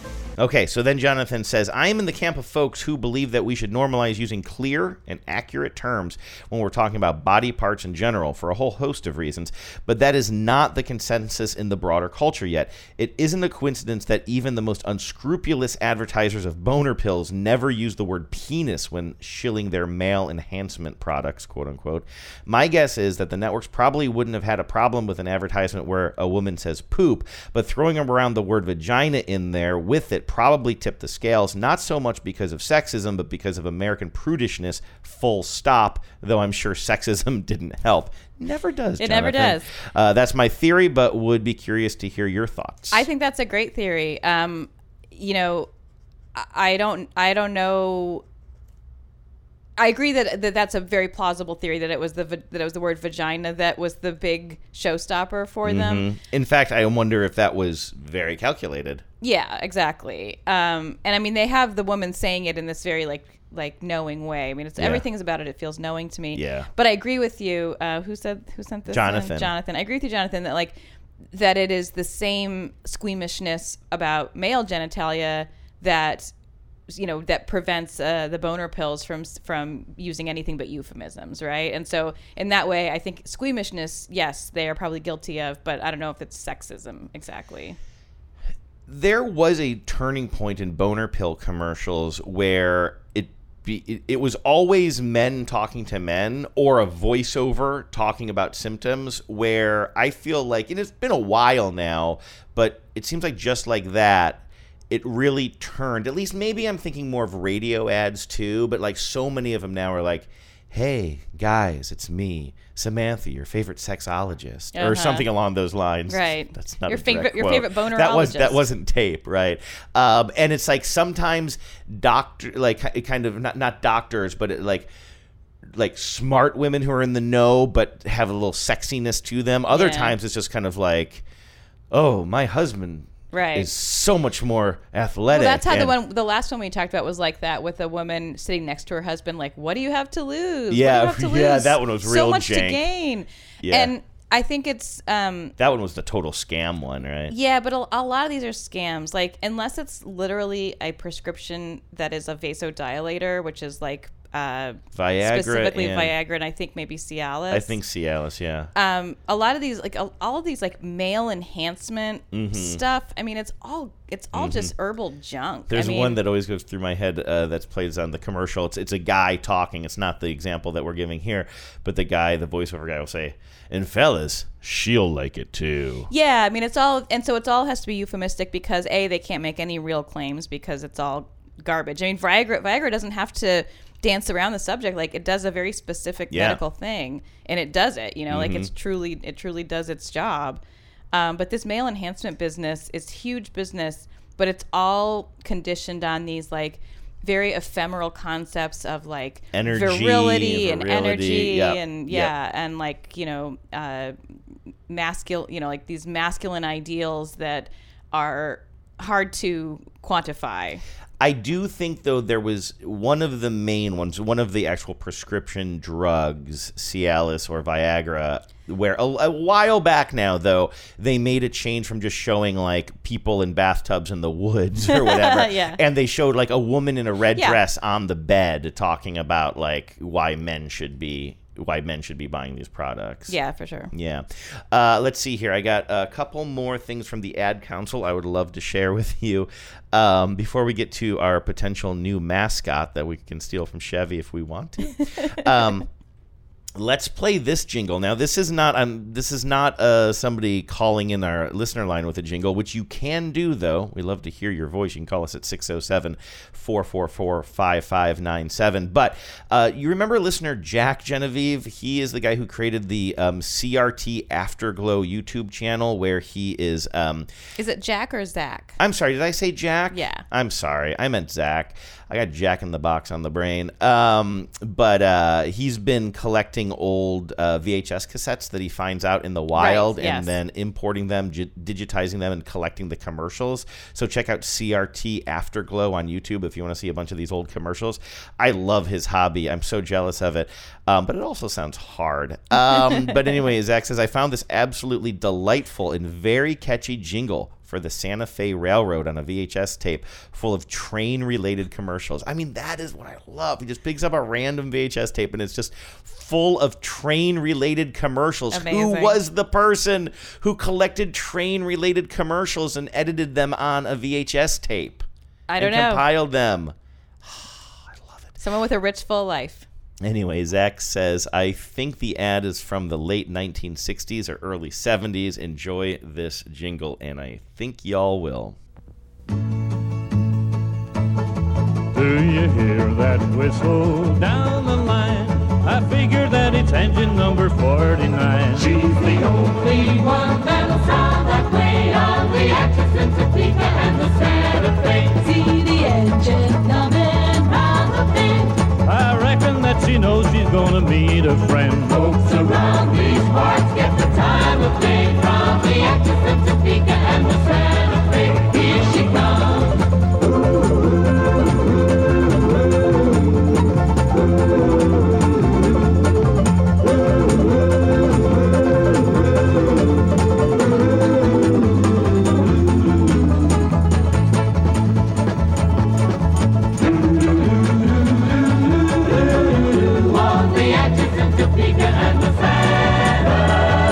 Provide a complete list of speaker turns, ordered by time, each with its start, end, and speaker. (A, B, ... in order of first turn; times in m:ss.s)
0:00.4-0:43.0 A
0:39.0-0:39.6 B
0:42.9-0:45.7 B
0:46.3-0:48.2 B
0:49.8-0:56.0 B
0:55.6-0:59.0 A
0:59.2-1:10.8 B
1:04.8-1:05.0 A
1:06.3-1:06.7 A
1:08.9-1:09.5 A
1:11.3-1:16.3 B
1:16.9-1:27.8 B
1:28.9-2:04.9 A
1:54.7-1:55.3 B
1:56.1-1:58.6 B
2:05.7-2:11.2 A
2:09.7-2:10.1 B
2:11.9-2:16.0 A
2:13.3-2:13.7 B
2:15.3-2:25.5 B
2:20.7-2:22.8 A
2:23.6-2:23.9 A
2:25.6-2:27.3 A
2:27.3-2:37.8 B
2:34.9-2:36.1 A
2:37.5-2:38.7 A
2:38.7-2:46.2 B
2:42.3-2:42.8 A
2:44.3-2:44.7 A
2:45.7-2:56.1 A
2:56.1-3:24.1 B
3:06.3-3:06.6 A
3:08.3-3:08.7 A
3:19.5-3:22.3 A
3:24.9-3:30.8 B
3:31.2-3:53.4 A
3:44.9-3:45.8 B
3:53.3-3:53.9 B
3:53.9-4:05.9 A
4:06.8-4:27.3 A
4:27.6-4:28.8 B
4:28.8-5:15.0 A
4:29.9-4:30.2 B
4:39.5-4:40.3 B
4:52.5-4:53.5 B
5:08.5-5:09.2 B
5:15.5-5:16.0 B
5:15.6-5:18.3 A
5:18.4-5:19.7 B
5:20.0-5:28.6 A
5:31.9-5:40.4 C
5:48.8-5:53.6 C